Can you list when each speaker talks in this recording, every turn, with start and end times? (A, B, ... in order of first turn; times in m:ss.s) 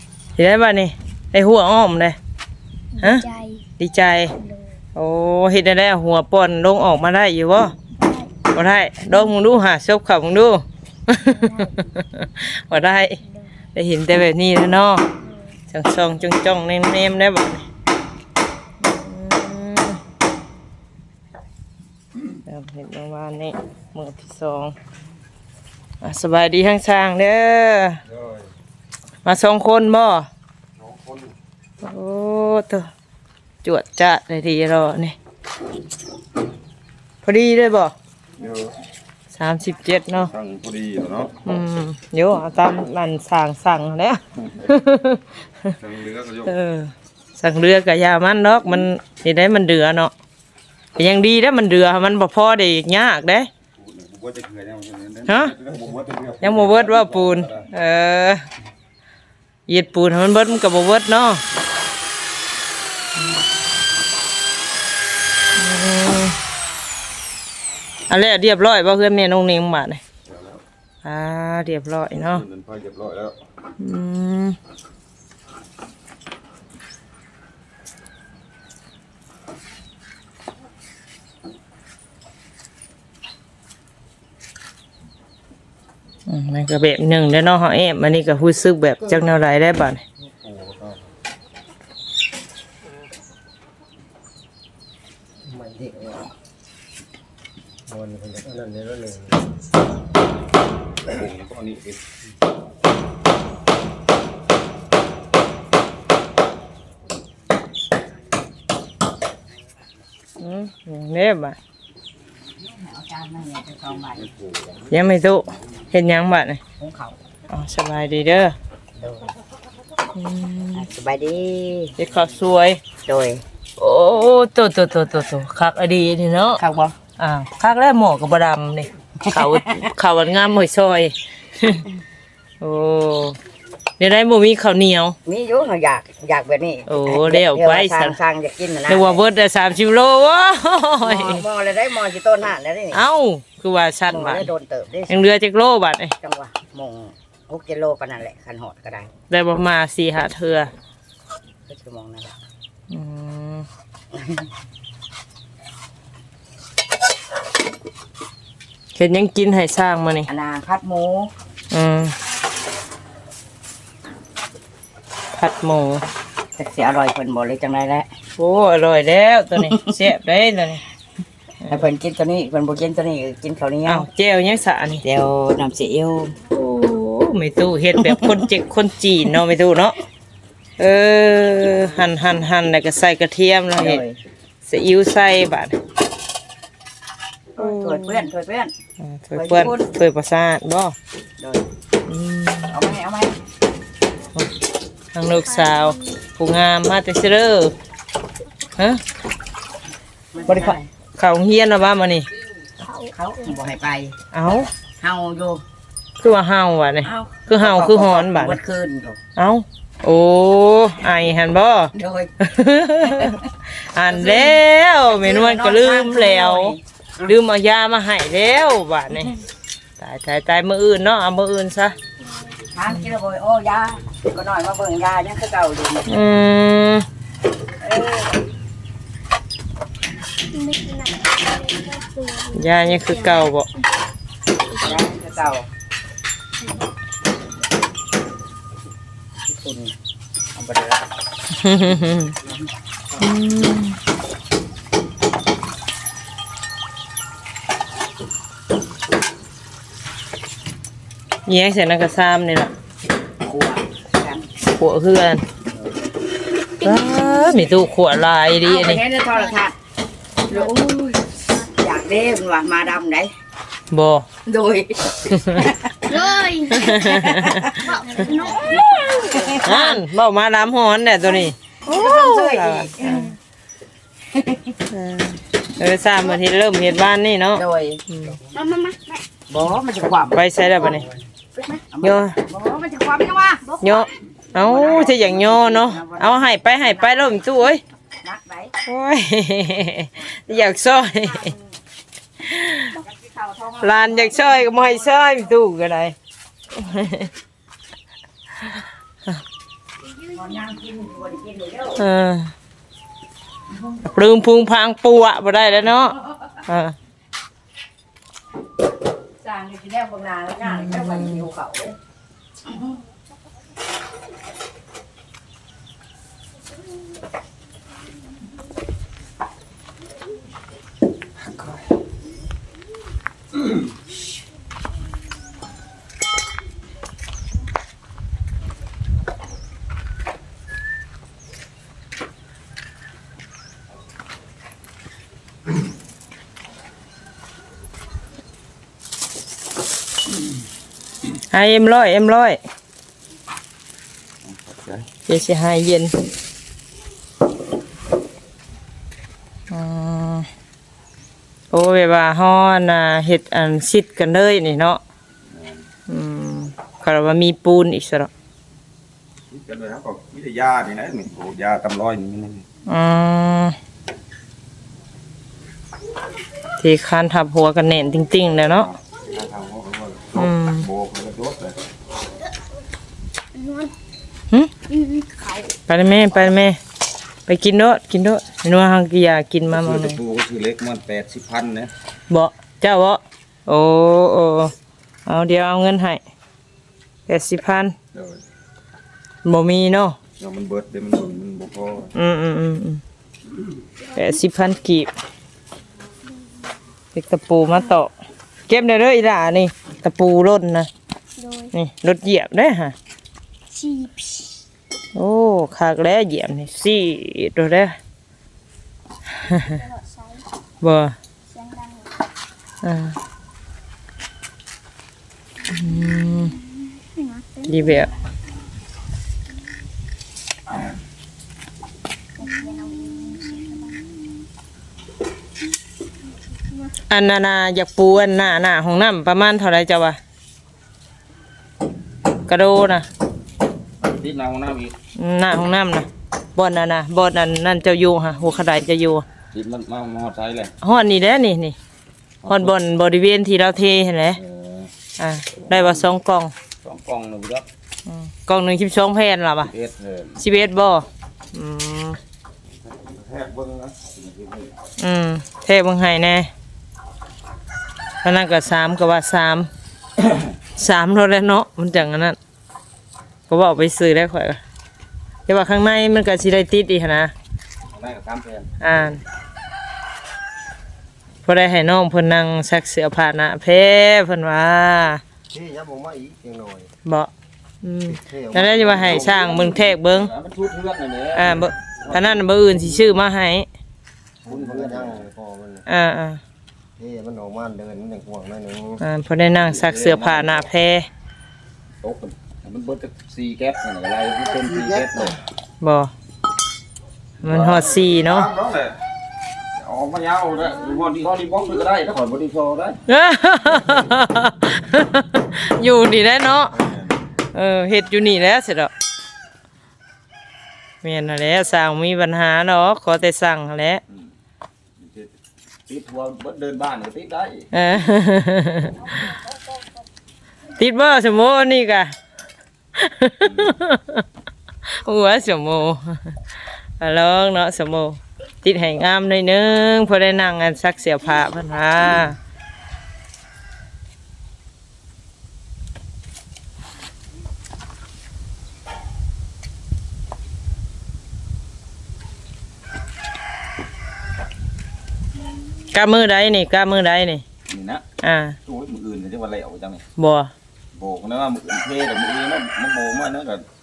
0:00.4-0:02.2 A
0:03.0-0:03.6 B
0:03.0-0:03.2 A
0:03.8-0:04.3 A
0:04.4-0:04.7 B
0:05.0-0:07.7 A
0:08.0-0:08.4 B
0:08.5-0:13.2 A
0:11.4-0:11.7 B
0:13.7-0:15.1 A
0:15.7-0:17.6 A
0:18.8-0:20.0 A
0:22.4-0:24.8 A
0:26.0-0:28.0 A
0:28.1-0:28.5 C
0:29.2-0:30.3 A
0:30.8-0:31.3 C
0:31.8-0:32.9 A
0:33.6-0:35.2 A
0:37.2-0:37.9 A
0:38.4-0:38.7 C
0:39.3-0:40.3 A
0:40.2-0:41.4 C
0:41.4-0:45.2 A
0:45.8-0:46.6 C
0:46.4-0:50.1 A
0:51.0-0:53.5 A
0:53.8-0:57.7 C
0:55.3-0:55.5 A
0:56.4-0:58.4 A
0:59.7-1:01.4 A
1:05.6-1:06.4 A
1:08.1-1:10.0 A
1:10.3-1:10.6 C
1:11.0-1:12.4 A
1:12.1-1:13.4 C
1:13.8-1:14.6 A
1:26.3-1:30.0 A
1:30.2-1:31.0 D
1:35.5-1:36.3 D
1:37.9-1:39.4 D
1:41.0-1:42.0 C
1:50.4-1:51.6 A
1:52.5-1:54.3 E
1:54.2-1:55.0 C
1:54.9-1:56.6 A
1:56.8-1:57.2 E
1:57.5-1:58.5 A
1:59.0-1:59.3 E
2:00.1-2:00.8 A
2:00.7-2:02.0 E
2:02.0-2:02.8 A
2:03.0-2:03.4 E
2:03.8-2:06.6 A
2:06.6-2:07.0 E
2:07.2-2:11.8 A
2:09.3-2:09.5 E
2:12.6-2:13.4 A
2:14.0-2:15.2 A
2:15.2-2:19.2 E
2:16.9-2:18.2 A
2:18.9-2:21.4 A
2:21.0-2:23.0 E
2:22.9-2:24.5 A
2:24.1-2:25.2 E
2:25.1-2:26.1 A
2:26.2-2:29.1 E
2:29.3-2:30.7 A
2:31.7-2:32.4 E
2:32.9-2:33.6 A
2:34.1-2:34.5 E
2:38.9-2:40.3 A
2:40.3-2:41.3 E
2:41.7-2:42.1 A
2:45.4-2:46.0 A
2:46.6-2:48.1 E
2:48.4-2:50.8 A
2:49.7-2:49.9 E
2:51.7-2:54.0 E
2:53.8-2:55.0 A
2:55.0-2:56.4 E
2:56.5-3:00.0 A
2:58.0-2:58.4 E
3:00.8-3:04.0 A
3:03.8-3:04.2 E
3:04.6-3:05.8 A
3:07.6-3:08.7 E
3:07.6-3:08.3 A
3:09.0-3:11.0 A
3:09.3-3:09.8 E
3:11.4-3:11.6 E
3:12.1-3:12.8 A
3:12.7-3:13.4 E
3:15.1-3:17.7 A
3:15.6-3:16.2 B
3:20.3-3:20.9 E
3:20.4-3:22.3 A
3:22.8-3:23.1 B
3:23.0-3:24.2 E
3:24.3-3:24.7 A
3:25.0-3:25.6 E
3:26.2-3:28.6 A
3:27.0-3:29.2 E
3:29.4-3:39.3 A
3:32.0-3:32.3 E
3:33.0-3:33.4 E
3:34.1-3:37.3 E
3:40.0-3:42.0 A
3:42.7-3:46.2 E
3:46.1-3:47.0 A
3:47.8-3:48.4 E
3:50.5-3:53.4 B
3:52.5-3:53.7 A
3:54.7-3:55.7 E
3:59.5-3:59.9 E
4:00.5-4:01.0 E
4:01.6-4:02.3 A
4:03.2-4:04.0 A
4:11.4-4:12.7 A
4:13.4-4:14.5 E
4:14.6-4:15.4 A
4:16.8-4:19.0 A
4:17.2-4:17.5 B
4:18.6-4:19.8 E
4:20.5-4:23.3 E
4:23.9-4:24.3 A
4:24.4-4:30.0 E
4:26.1-4:26.9 B
4:26.7-4:28.4 A
4:28.1-4:29.0 B
4:29.6-4:33.4 A
4:31.8-4:33.3 E
4:34.3-4:34.8 E
4:34.9-4:38.4 A
4:37.5-4:38.0 E
4:38.5-4:39.2 B
4:39.5-4:41.0 E
4:40.3-4:41.0 A
4:41.8-4:43.8 E
4:42.0-4:42.3 A
4:43.8-4:47.8 A
4:44.5-4:47.4 E
4:48.2-4:48.7 E
4:48.8-4:51.5 A
4:51.3-4:51.6 E
4:52.4-4:53.0 A
4:52.9-4:55.1 E
4:53.8-4:56.1 A
4:56.7-4:57.3 A
5:00.3-5:02.0 E
5:02.0-5:02.5 A
5:04.0-5:07.0 A
5:09.4-5:12.0 E
5:10.6-5:11.5 A
5:41.5-5:42.6 A
5:44.4-5:45.1 C
5:45.3-5:46.1 A
5:49.7-5:50.5 A
5:51.7-5:55.0 A
5:55.5-5:55.9 C
5:56.1-5:58.3 A
5:59.5-6:02.6 C
6:02.9-6:03.8 A
6:06.8-6:08.9 A
6:08.7-6:11.8 C
6:10.4-6:10.8 A
6:13.5-6:13.9 B
6:14.9-6:15.7 B
6:15.9-6:16.8 A
6:17.5-6:20.2 A
6:19.7-6:21.9 C
6:22.3-6:24.7 A
6:25.2-6:26.2 A
6:27.3-6:27.9 A
6:28.1-6:28.4 C
6:29.4-6:30.2 A
6:30.4-6:32.1 C
6:32.1-6:33.0 A
6:34.1-6:35.1 A
6:37.1-6:38.1 A
6:38.7-6:40.9 A
6:41.4-6:41.7 B
6:41.7-6:42.9 A
6:43.7-6:44.6 B
6:45.1-6:47.9 A
6:49.4-6:49.7 A
6:49.7-6:50.4 B
6:50.8-6:51.1 A
6:51.5-6:52.1 B
6:52.8-6:53.1 A
6:55.7-6:56.5 A
6:56.8-6:58.1 B
6:57.7-6:58.1 A
7:02.4-7:04.4 B
7:07.1-7:10.2 A
7:12.5-7:13.1 A
7:14.0-7:15.0 C
7:15.2-7:19.2 A
7:19.5-7:20.7 C
7:20.8-7:21.8 A
7:22.4-7:22.7 C
7:22.5-7:24.4 A
7:24.4-7:24.9 C
7:25.2-7:26.5 A
7:26.8-7:27.6 C
7:28.1-7:29.7 A
7:29.6-7:30.4 C
7:30.4-7:32.2 A
7:32.7-7:34.8 C
7:35.0-7:36.5 A
7:38.2-7:39.7 A
7:40.8-7:42.4 A
7:43.5-7:44.6 A
7:45.5-7:47.3 A
7:47.9-7:48.7 C
7:48.8-7:49.2 A
7:51.4-7:55.2 A
7:55.5-7:56.9 D
7:57.0-7:57.3 A
7:57.8-8:00.3 A
7:58.1-7:59.3 D
7:58.7-8:03.0 C
8:01.3-8:03.7 A
8:04.4-8:05.3 C
8:04.4-8:05.8 D
8:05.9-8:06.4 A
8:07.0-8:09.0 D
8:09.0-8:11.1 A
8:09.5-8:10.7 C
8:12.0-8:15.4 C
8:14.6-8:15.0 D
8:15.8-8:16.1 A
8:17.4-8:18.5 A
8:17.4-8:19.0 C
8:19.8-8:23.0 C
8:23.1-8:26.8 A
8:26.7-8:27.2 C
8:27.5-8:28.9 A
8:31.0-8:34.0 A
8:35.0-8:35.3 C
8:35.9-8:37.7 C
8:37.7-8:39.1 A
8:40.8-8:42.1 A
8:43.0-8:44.2 A
8:43.4-8:43.7 C
8:45.0-8:46.3 A
8:47.0-8:52.4 A
9:05.9-9:07.4 A
9:07.7-9:08.0 C
9:08.2-9:08.6 A
9:08.6-9:10.0 C
9:10.2-9:10.5 A
9:10.9-9:13.6 C